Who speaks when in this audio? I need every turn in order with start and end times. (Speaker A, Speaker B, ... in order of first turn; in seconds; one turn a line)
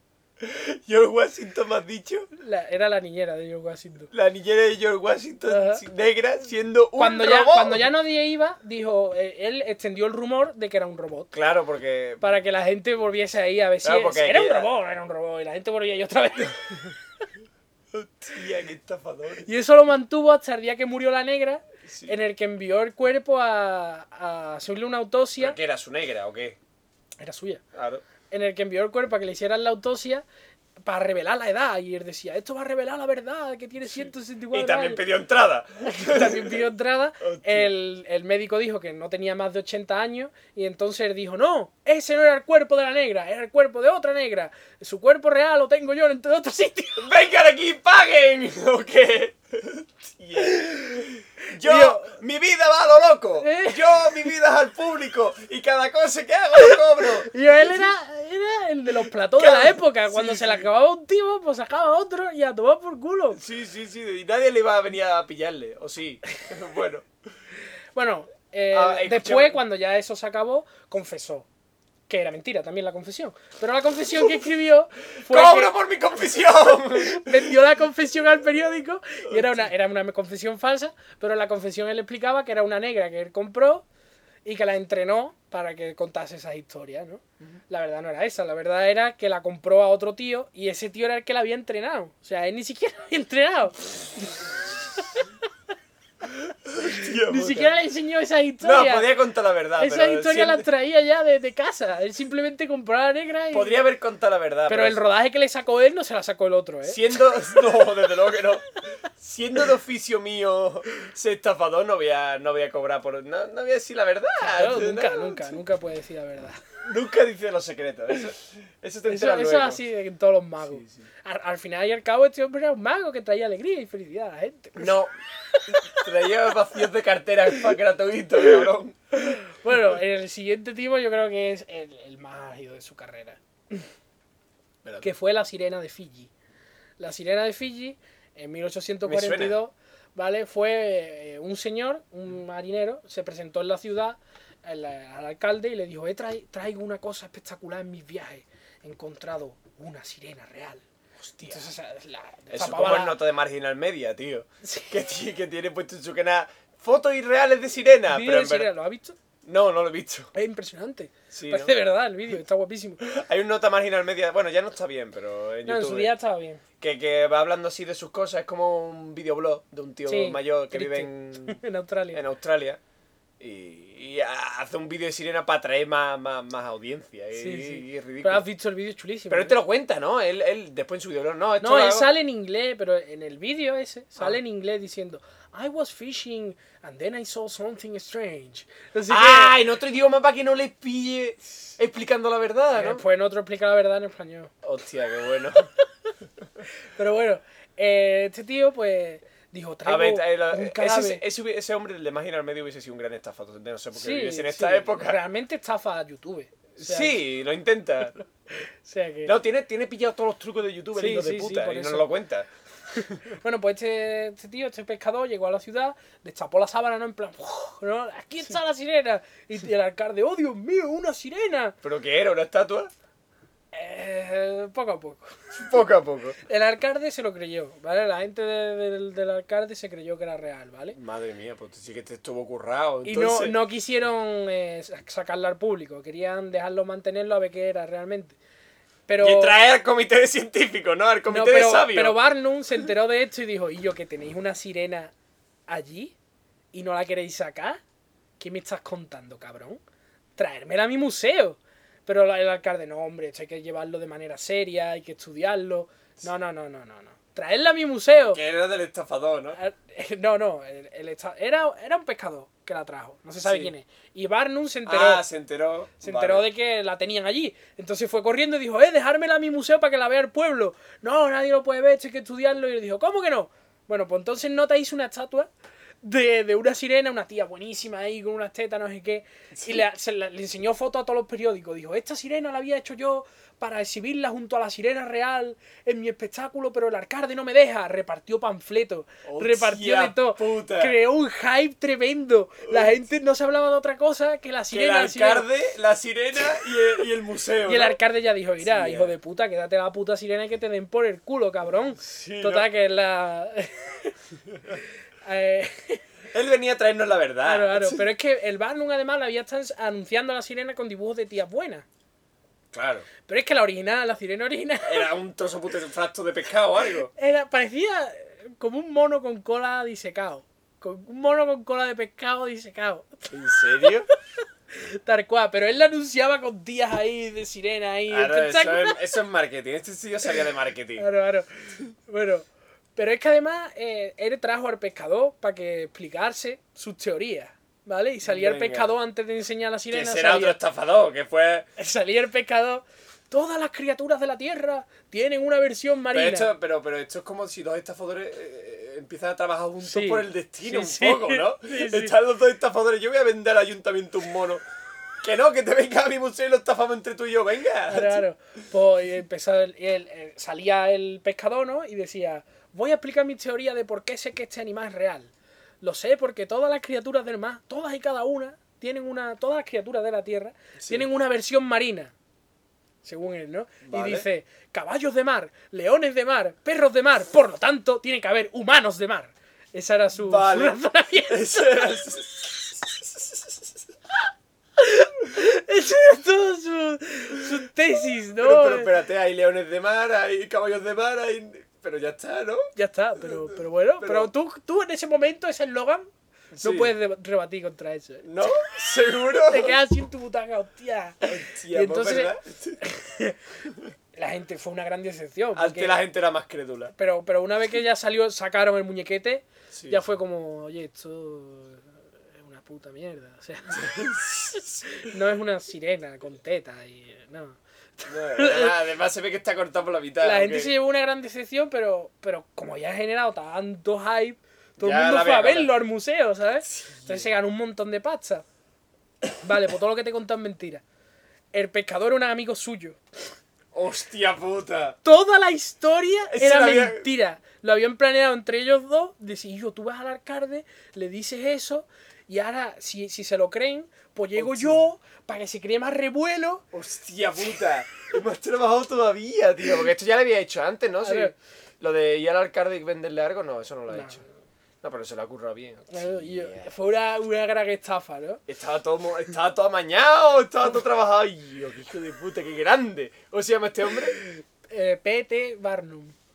Speaker A: 0.4-2.3
Speaker B: 2.4-4.1
Speaker A: 4.1-7.9
Speaker B: 5.5-5.8
Speaker B: 7.0-11.3
Speaker A: 11.3-12.2
Speaker B: 12.2-17.0
Speaker A: 13.8-14.7
Speaker A: 17.9-19.5
Speaker B: 19.4-25.6
Speaker A: 21.9-22.1
Speaker A: 25.4-26.6
Speaker B: 27.2-27.6
Speaker A: 27.7-28.0
Speaker B: 28.3-30.2
Speaker B: 30.9-35.0
Speaker A: 33.9-36.6
Speaker B: 35.8-47.1
Speaker A: 37.2-37.7
Speaker A: 47.0-57.3
Speaker B: 50.5-51.0
Speaker B: 51.6-52.1
Speaker B: 53.4-54.3
Speaker B: 56.6-63.4
Speaker A: 59.4-60.7
Speaker A: 63.3-67.1
Speaker B: 68.0-71.5
Speaker A: 68.7-69.6
Speaker B: 72.1-75.7
Speaker A: 75.2-77.5
Speaker B: 77.0-83.9
Speaker A: 79.3-79.7
Speaker B: 84.5-95.3
Speaker A: 96.7-97.7
Speaker B: 96.8-99.1
Speaker A: 98.6-100.7
Speaker B: 99.8-103.8
Speaker A: 103.5-105.0
Speaker B: 104.7-107.6
Speaker A: 106.8-115.6
Speaker B: 114.4-116.6
Speaker A: 116.8-119.8
Speaker B: 119.1-125.0
Speaker A: 120.6-121.1
Speaker A: 124.8-125.1
Speaker B: 125.5-126.0
Speaker A: 125.7-129.0
Speaker B: 129.1-133.9
Speaker B: 135.0-136.3
Speaker B: 137.0-150.8
Speaker A: 139.0-139.6
Speaker A: 151.2-151.7
Speaker B: 151.4-153.2
Speaker A: 152.5-158.7
Speaker B: 154.6-154.9
Speaker B: 158.1-159.2
Speaker A: 159.4-160.3
Speaker B: 160.3-163.0
Speaker A: 161.3-161.7
Speaker A: 163.0-166.1
Speaker B: 165.7-166.6
Speaker A: 166.8-171.6
Speaker B: 170.1-172.2
Speaker A: 172.1-172.8
Speaker A: 173.4-178.4
Speaker B: 177.4-179.6
Speaker A: 179.3-182.1
Speaker B: 181.6-189.6
Speaker A: 189.1-193.0
Speaker B: 192.7-194.5
Speaker A: 194.6-195.7
Speaker B: 196.8-201.2
Speaker A: 199.8-205.2
Speaker B: 203.9-207.2
Speaker A: 206.8-208.2
Speaker B: 208.8-209.3
Speaker A: 209.2-213.2
Speaker B: 211.0-212.1
Speaker B: 213.0-221.8
Speaker A: 221.8-222.9
Speaker B: 223.7-225.3
Speaker A: 225.6-226.4
Speaker B: 226.5-231.0
Speaker A: 230.9-233.6
Speaker B: 233.1-238.4
Speaker B: 239.1-239.6
Speaker A: 239.2-242.2
Speaker B: 241.3-245.1
Speaker B: 245.7-246.1
Speaker B: 246.7-247.8
Speaker B: 248.4-249.8
Speaker B: 250.4-258.4
Speaker A: 258.3-259.6
Speaker B: 259.5-265.2
Speaker A: 263.4-263.7
Speaker A: 264.9-266.5
Speaker B: 266.0-275.5
Speaker B: 276.0-295.5
Speaker A: 279.6-279.8
Speaker A: 289.2-290.9
Speaker A: 292.7-292.9
Speaker A: 294.7-298.0
Speaker B: 297.7-304.1
Speaker A: 298.6-299.1
Speaker A: 302.0-302.7
Speaker B: 305.2-306.0
Speaker A: 306.3-308.0
Speaker B: 307.4-311.9
Speaker A: 312.7-313.1
Speaker B: 313.3-315.1
Speaker A: 314.9-317.1
Speaker B: 317.1-324.1
Speaker A: 323.3-324.1
Speaker B: 324.7-329.0
Speaker A: 328.1-331.1
Speaker B: 331.0-340.6
Speaker A: 338.2-338.9
Speaker A: 339.9-341.7
Speaker B: 341.8-346.5
Speaker A: 346.1-354.6
Speaker B: 349.9-352.1
Speaker A: 355.2-358.2
Speaker B: 357.9-372.1
Speaker A: 370.8-371.1
Speaker B: 373.0-381.9
Speaker A: 373.9-374.3
Speaker A: 380.2-383.6
Speaker B: 384.8-388.9
Speaker A: 388.4-392.7
Speaker B: 392.8-396.1
Speaker A: 393.2-394.3
Speaker A: 396.5-396.9
Speaker B: 396.6-398.3
Speaker A: 398.2-399.8
Speaker B: 399.5-403.5
Speaker A: 401.2-402.8
Speaker A: 403.6-403.9
Speaker B: 404.1-406.0
Speaker A: 405.6-406.9
Speaker B: 407.0-418.8
Speaker A: 409.7-410.1
Speaker A: 413.7-415.1
Speaker A: 418.1-420.7
Speaker B: 420.2-428.4
Speaker A: 424.8-425.7
Speaker A: 426.7-427.3
Speaker B: 429.4-430.8
Speaker B: 431.5-433.0
Speaker A: 433.7-435.0
Speaker B: 435.0-446.6
Speaker A: 436.3-437.1
Speaker A: 444.4-444.8
Speaker A: 446.7-454.2
Speaker B: 451.0-451.3
Speaker B: 453.9-454.2
Speaker A: 454.8-456.7
Speaker B: 455.9-458.4
Speaker A: 458.5-464.2
Speaker B: 464.7-466.1